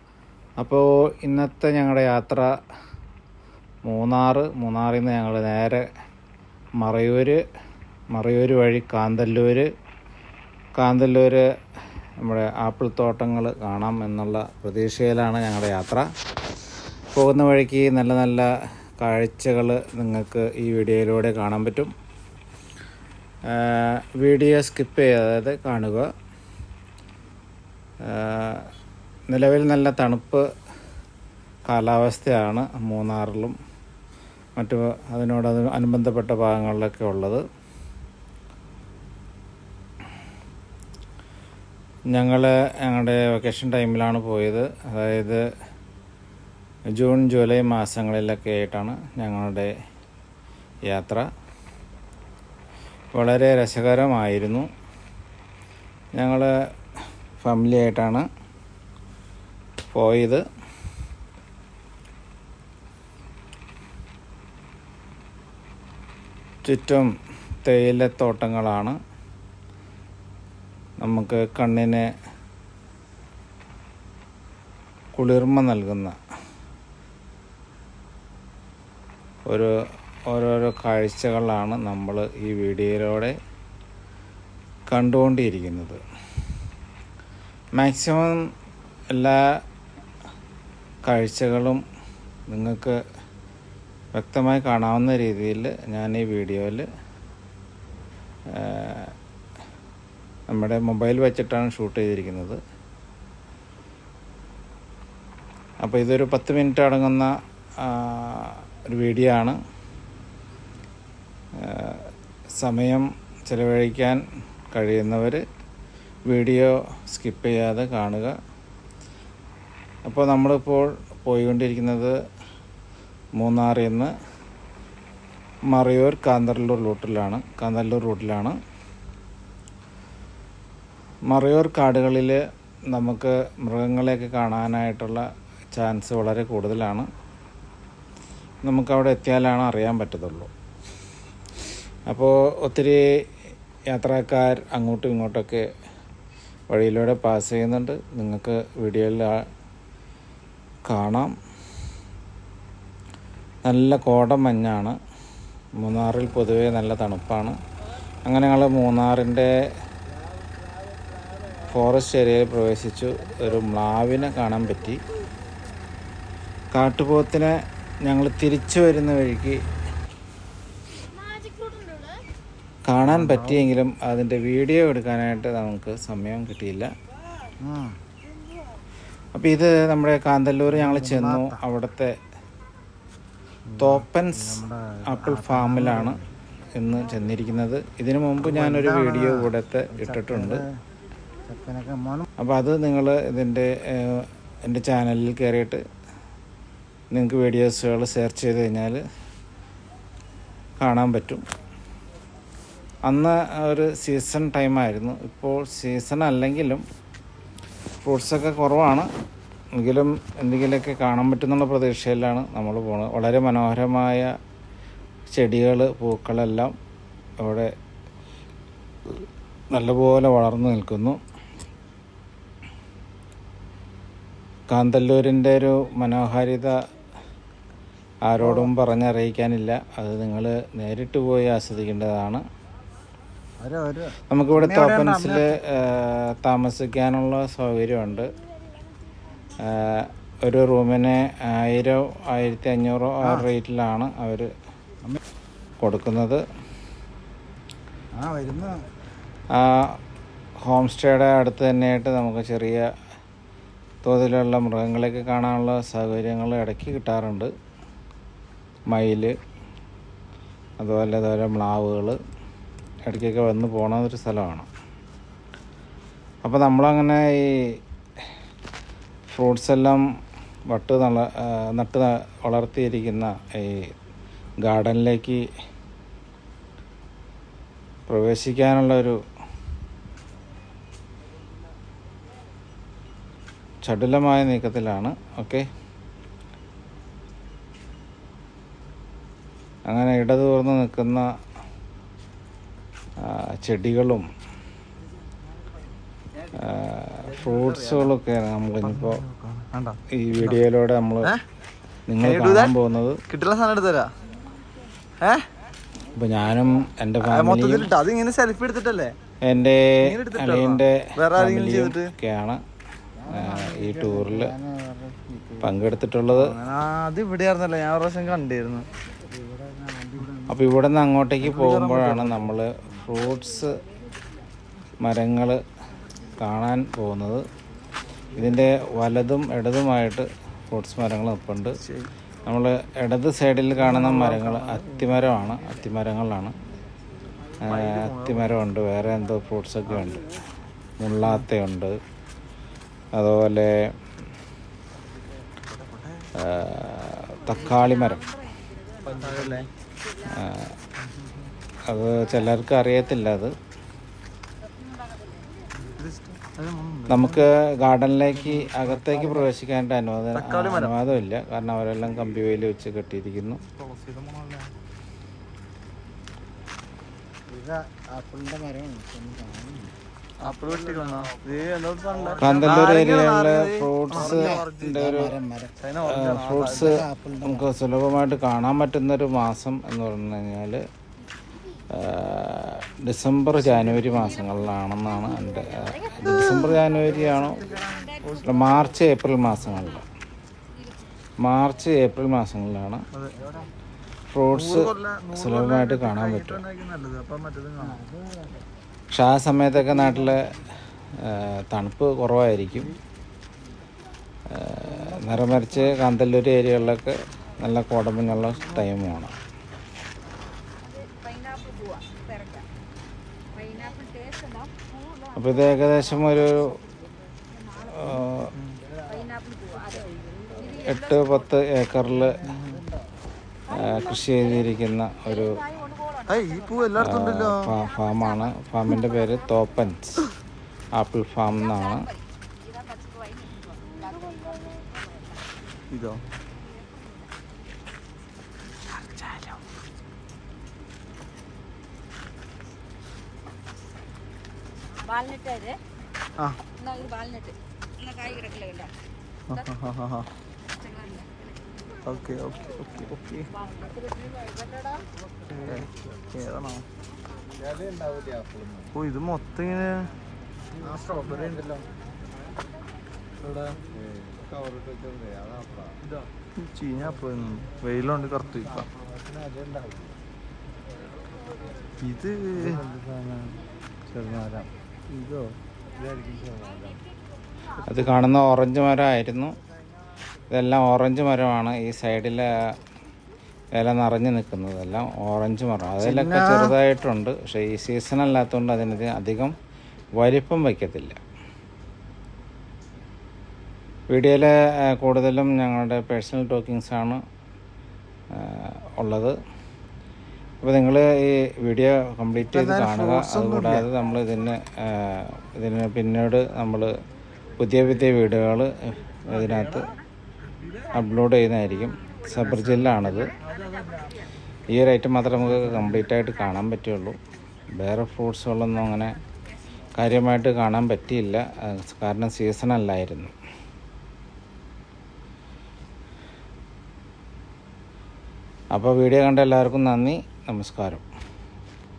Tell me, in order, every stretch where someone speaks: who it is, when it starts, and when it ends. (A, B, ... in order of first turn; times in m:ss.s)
0:00.6-0:02.5 A
0:03.8-0:05.9 A
0:06.8-0:07.4 A
0:08.1-0:09.7 A
0:10.8-0:11.4 A
0:12.2-0:16.1 A
0:17.1-0:21.9 A
0:23.5-0:26.1 A
0:28.0-0:28.7 A
0:29.3-0:30.5 A
0:31.7-0:33.6 A
0:34.6-0:37.4 A
0:42.1-0:45.4 A
0:46.9-0:49.7 A
0:50.9-0:51.3 A
0:53.1-0:54.7 A
0:56.1-0:56.5 A
0:57.4-0:58.2 A
0:59.9-1:00.4 A
1:06.6-1:07.1 A
1:07.6-1:09.0 A
1:11.0-1:12.1 A
1:15.2-1:16.2 A
1:19.4-1:19.7 A
1:20.3-1:23.4 A
1:24.9-1:26.0 A
1:27.8-1:28.5 A
1:29.1-1:29.6 A
1:31.0-1:31.8 A
1:32.5-1:33.0 A
1:34.1-1:36.9 A
1:38.5-1:39.1 A
1:40.5-1:42.6 A
1:45.8-1:49.6 A
1:51.6-1:55.4 A
1:56.3-1:58.3 A
2:00.0-2:02.2 A
2:03.4-2:04.1 A
2:05.7-2:08.6 A
2:11.3-2:17.1 A
2:18.6-2:20.5 A
2:22.1-2:23.1 A
2:23.9-2:25.6 A
2:26.7-2:29.4 A
2:30.9-2:31.3 A
2:33.6-2:35.0 A
2:35.8-2:37.6 A
2:38.2-2:39.5 A
2:41.6-2:45.0 A
2:46.7-2:49.6 A
2:51.5-2:51.9 B
2:52.9-2:56.9 A
2:53.0-2:53.7 C
2:57.6-2:58.0 C
2:59.3-3:02.2 A
3:00.7-3:01.6 C
3:03.7-3:06.2 C
3:03.8-3:06.2 A
3:06.8-3:10.6 A
3:08.4-3:10.6 C
3:11.4-3:12.2 C
3:12.4-3:15.8 A
3:17.1-3:19.0 A
3:20.8-3:21.4 A
3:23.0-3:26.8 A
3:28.0-3:29.1 A
3:29.7-3:34.3 A
3:35.3-3:36.7 A
3:37.4-3:37.7 A
3:39.1-3:41.2 A
3:44.7-3:46.8 A
3:48.2-3:52.4 A
3:48.4-3:48.7 C
3:53.6-3:55.5 C
3:54.3-3:58.3 A
3:59.6-4:04.5 A
4:05.8-4:06.4 A
4:08.2-4:08.8 C
4:09.5-4:10.0 A
4:10.6-4:12.9 A
4:14.0-4:17.5 A
4:18.9-4:19.4 A
4:20.8-4:22.2 A
4:23.0-4:24.7 A
4:26.4-4:27.8 A
4:29.3-4:30.0 A
4:30.7-4:33.9 A
4:34.6-4:35.4 A
4:38.1-4:39.2 A
4:43.8-4:45.7 A
4:49.8-4:51.3 A
4:53.2-4:54.3 A
4:56.5-4:59.2 A
4:57.4-4:58.1 D
4:58.8-5:00.6 D
5:00.1-5:01.3 A
5:02.1-5:03.2 A
5:02.2-5:02.7 D
5:03.3-5:04.1 D
5:06.1-5:07.9 A
5:07.3-5:09.1 D
5:09.4-5:12.6 A
5:10.0-5:12.1 D
5:13.2-5:15.8 C
5:13.3-5:14.5 A
5:15.6-5:16.6 A
5:16.4-5:18.9 D
5:19.3-5:20.7 C
5:20.5-5:23.8 A
5:21.4-5:22.5 D
5:25.0-5:25.6 A
5:26.4-5:27.4 A
5:28.3-5:31.8 A
5:31.8-5:32.1 D
5:32.4-5:36.5 A
5:33.8-5:35.3 D
5:37.6-5:40.4 A
5:37.7-5:38.6 D
5:41.0-5:42.0 A
5:43.1-5:43.9 A
5:45.7-5:46.2 D
5:46.4-5:48.3 A
5:47.8-5:49.0 B
5:49.0-5:49.7 D
5:50.3-5:50.7 A
5:51.9-5:53.5 A
5:55.8-5:57.4 D
5:57.1-6:03.6 A
5:58.6-5:59.5 C
6:00.4-6:00.9 D
6:03.8-6:04.7 D
6:07.5-6:09.9 C
6:10.4-6:15.3 D
6:12.4-6:15.4 A
6:14.2-6:15.7 C
6:15.8-6:17.0 D
6:16.0-6:20.8 A
6:16.8-6:17.6 C
6:21.9-6:27.8 A
6:25.8-6:26.9 B
6:27.6-6:28.2 B
6:28.4-6:30.1 A
6:31.4-6:33.0 A
6:33.4-6:33.7 C
6:34.3-6:36.6 A
6:34.5-6:38.0 D
6:37.8-6:38.6 C
6:39.1-6:40.4 A
6:41.2-6:42.9 A
6:44.5-6:49.3 A
6:44.9-6:46.0 C
6:50.9-6:52.6 B
6:53.6-6:54.9 B
6:55.3-6:56.8 A
6:57.9-6:58.5 A
6:58.5-6:58.8 D
6:59.1-7:00.0 B
7:00.6-7:01.4 B
7:00.7-7:02.5 A
7:02.4-7:02.8 C
7:02.5-7:02.8 D
7:03.7-7:05.6 A
7:03.9-7:04.4 B
7:05.3-7:06.2 B
7:06.3-7:07.7 D
7:07.0-7:10.3 A
7:07.9-7:08.5 B
7:11.0-7:12.1 A
7:11.6-7:15.0 B
7:15.9-7:16.2 D
7:25.0-7:25.8 B
7:26.8-7:28.9 B
7:29.5-7:30.3 D
7:30.8-7:31.3 B
7:32.0-7:33.5 D
7:35.5-7:36.8 D
7:38.9-7:40.1 D
7:40.8-7:41.8 C
7:46.6-7:48.9 D
7:52.0-7:52.8 D
7:52.7-7:53.6 C
7:54.1-7:54.7 C
7:55.1-7:55.5 D
7:57.8-7:59.5 A
8:00.5-8:02.6 A
8:03.7-8:09.5 A
8:06.0-8:06.7 D
8:10.2-8:11.2 A
8:14.1-8:17.2 A
8:18.3-8:19.4 A
8:20.6-8:26.9 A
8:22.5-8:23.9 C
8:27.6-8:29.9 A
8:30.9-8:33.3 A
8:34.7-8:37.2 A
8:37.8-8:39.2 A
8:40.0-8:43.3 A
8:48.7-8:51.0 A